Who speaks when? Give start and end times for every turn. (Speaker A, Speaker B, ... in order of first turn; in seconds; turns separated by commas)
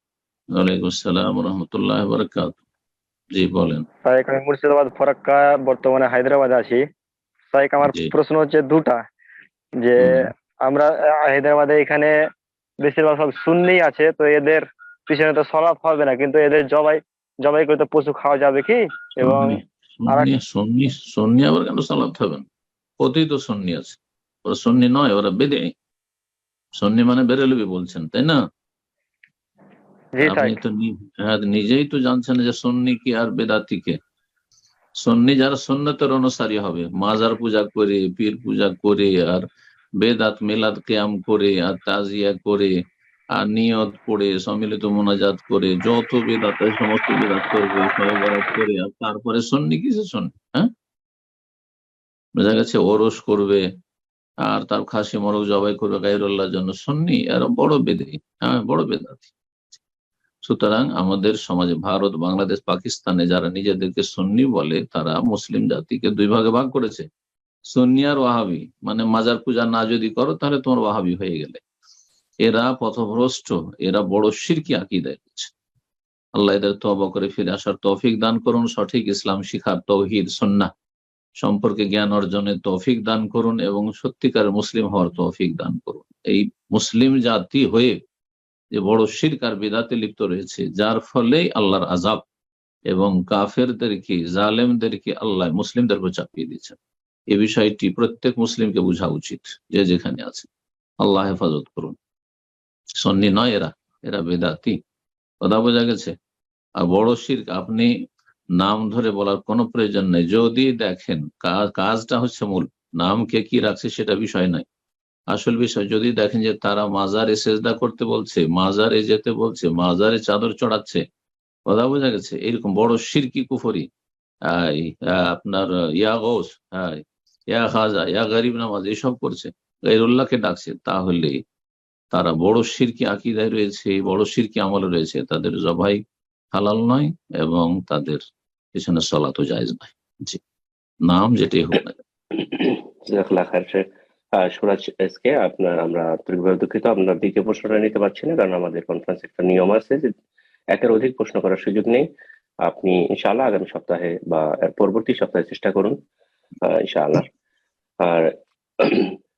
Speaker A: 0.5-2.6, Speaker A: 3.3-3.8, Speaker B: 4.0-6.8, Speaker B: 7.5-9.0, Speaker A: 7.8-8.1, Speaker B: 9.8-12.1, Speaker A: 10.0-10.3, Speaker B: 12.8-19.6, Speaker A: 19.2-22.4, Speaker A: 23.0-25.7, Speaker A: 26.8-28.4, Speaker B: 30.1-30.6, Speaker A: 30.2-34.0, Speaker A: 35.0-39.4, Speaker A: 40.0-42.7, Speaker A: 43.3-50.7, Speaker A: 52.4-53.6, Speaker A: 54.5-59.3, Speaker A: 60.4-67.0, Speaker A: 67.7-71.6, Speaker A: 72.4-75.5, Speaker A: 76.4-80.7, Speaker A: 81.4-88.0, Speaker A: 88.7-92.2, Speaker A: 92.9-96.8, Speaker A: 97.3-100.5, Speaker A: 101.0-101.9, Speaker A: 103.0-104.8, Speaker A: 105.4-106.1, Speaker A: 106.8-107.9, Speaker A: 108.6-114.6, Speaker A: 115.3-121.0, Speaker A: 121.7-123.8, Speaker A: 124.5-131.4, Speaker A: 132.1-136.0, Speaker A: 136.5-138.2, Speaker A: 138.7-140.4, Speaker A: 141.1-142.0, Speaker C: 142.3-143.8, Speaker C: 144.4-150.1, Speaker C: 150.7-152.1, Speaker C: 152.6-155.9, Speaker C: 156.6-157.2, Speaker C: 158.0-158.3, Speaker C: 158.8-159.2